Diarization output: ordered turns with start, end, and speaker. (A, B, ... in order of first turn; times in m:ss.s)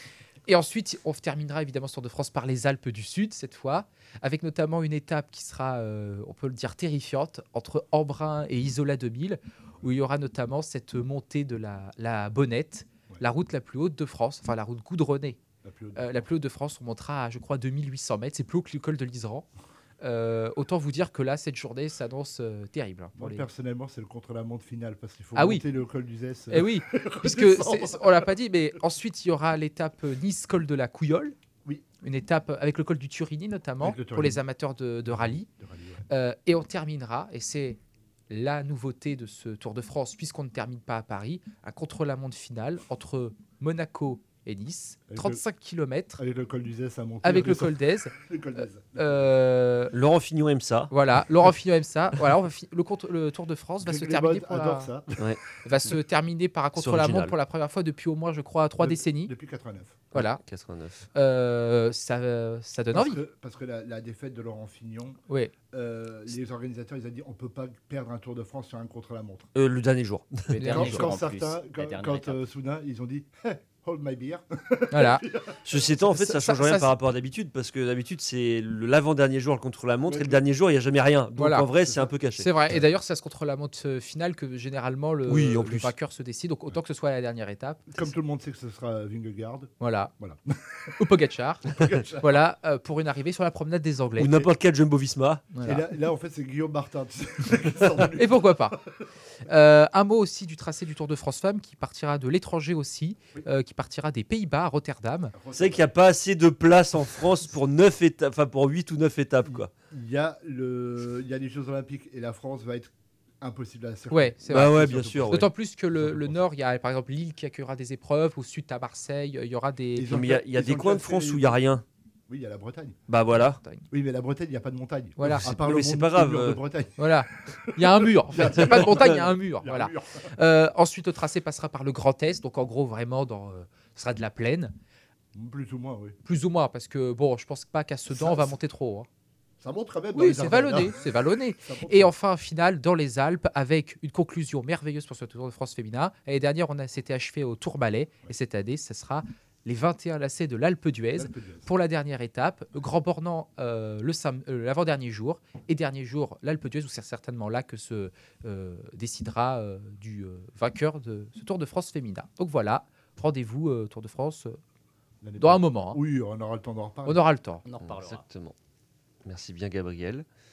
0:00.4-0:15.4 A
0:15.6-0:16.2 B
0:16.0-0:19.5 A
0:20.0-0:23.4 A
0:23.2-0:28.3 B
0:25.3-0:25.6 A
0:26.5-0:31.4 A
0:32.0-0:35.5 A
0:33.8-0:34.4 B
0:35.0-0:36.0 B
0:36.1-0:37.8 A
0:38.3-0:46.2 A
0:45.1-0:45.4 B
0:46.2-0:49.2 B
0:47.2-0:49.9 A
0:49.9-0:50.9 C
0:50.9-0:54.9 A
0:53.8-0:55.3 B
0:55.6-0:59.3 A
0:56.8-0:57.3 C
0:58.8-1:00.1 B
1:00.1-1:00.4 A
1:00.1-1:01.1 C
1:01.1-1:03.2 A
1:02.9-1:09.5 B
1:09.5-1:10.5 C
1:10.5-1:12.4 D
1:10.5-1:11.1 A
1:10.6-1:15.6 B
1:14.9-1:15.2 A
1:15.6-1:22.5 C
1:16.0-1:16.9 A
1:20.1-1:20.4 B
1:21.4-1:21.7 A
1:21.8-1:22.1 B
1:22.4-1:27.9 A
1:25.3-1:25.9 C
1:27.9-1:31.0 B
1:29.8-1:30.1 A
1:31.0-1:34.4 A
1:31.7-1:32.4 B
1:34.2-1:35.4 C
1:35.5-1:35.8 A
1:35.6-1:38.9 B
1:38.2-1:38.8 A
1:39.4-1:45.3 A
1:45.3-1:45.9 B
1:45.5-1:49.7 C
1:49.4-1:56.4 B
1:54.1-2:00.1 A
1:54.5-1:55.5 C
2:00.0-2:01.6 B
2:00.1-2:01.8 C
2:02.3-2:03.0 B
2:03.1-2:03.6 C
2:03.3-2:03.8 A
2:03.9-2:10.3 B
2:05.2-2:05.5 A
2:05.3-2:06.6 C
2:07.0-2:14.7 A
2:08.5-2:09.2 C
2:15.3-2:16.2 B
2:16.2-2:19.1 A
2:18.1-2:18.6 B
2:19.6-2:22.1 B
2:20.1-2:44.6 A
2:31.1-2:31.7 B
2:45.2-2:47.2 B
2:45.4-2:46.0 A
2:47.0-2:47.6 A
2:47.6-2:48.2 D
2:47.8-2:48.5 C
2:49.2-2:50.2 C